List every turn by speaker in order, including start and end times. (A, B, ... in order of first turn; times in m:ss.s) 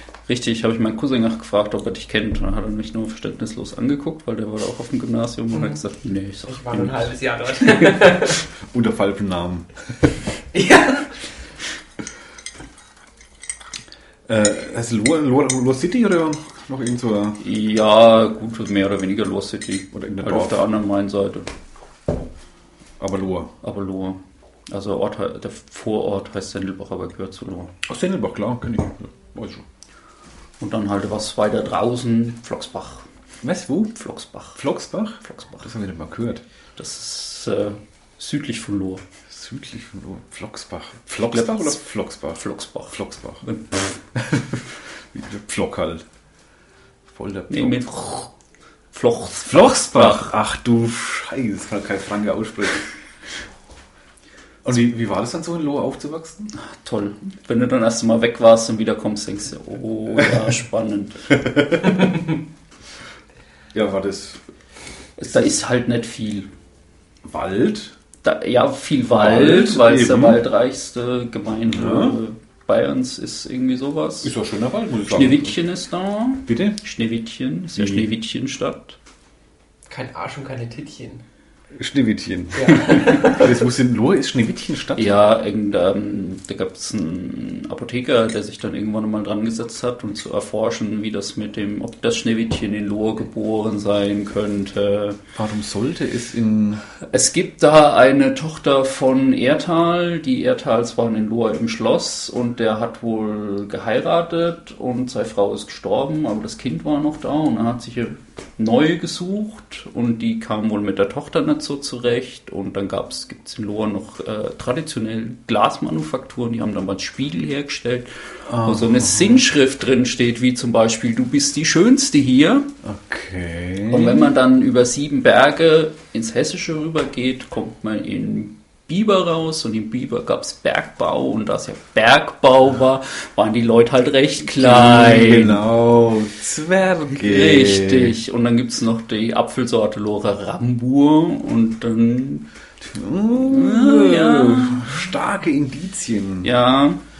0:00.3-0:07.1 A
0:05.5-0:05.8 B
0:06.5-0:08.4 B
0:08.7-0:10.1 C
0:10.5-0:11.2 B
0:14.3-0:17.4 C
0:17.4-0:21.5 A
0:19.9-0:20.7 C
0:23.0-0:23.5 C
0:23.6-0:27.7 A
0:27.8-0:29.6 C
0:30.6-0:33.1 A
0:33.4-0:34.0 C
0:34.0-0:34.6 A
0:34.6-0:36.4 C
0:35.2-0:35.6 A
0:36.8-0:39.0 A
0:39.3-0:43.4 C
0:41.2-0:41.8 A
0:42.4-0:43.9 A
0:44.1-0:46.0 C
0:47.1-0:47.8 C
0:47.5-0:48.3 A
0:48.9-0:50.3 A
0:49.4-0:52.9 C
0:54.6-0:56.5 C
0:56.7-1:01.4 A
1:01.3-1:02.2 C
1:03.7-1:04.4 C
1:05.2-1:06.5 A
1:07.2-1:08.0 C
1:08.2-1:14.3 A
1:09.1-1:10.4 C
1:11.7-1:12.2 C
1:14.2-1:15.6 C
1:15.1-1:19.0 A
1:16.5-1:16.8 C
1:17.8-1:18.1 C
1:19.9-1:21.2 B
1:21.7-1:25.1 C
1:22.5-1:23.5 B
1:25.0-1:35.2 A
1:35.4-1:36.8 C
1:37.1-2:02.7 A
1:58.5-1:59.4 C
2:02.8-2:04.3 C
2:03.9-2:15.6 A
2:14.5-2:18.2 C
2:17.2-2:22.5 A
2:22.8-2:26.5 C
2:23.3-2:25.1 A
2:26.4-2:27.0 A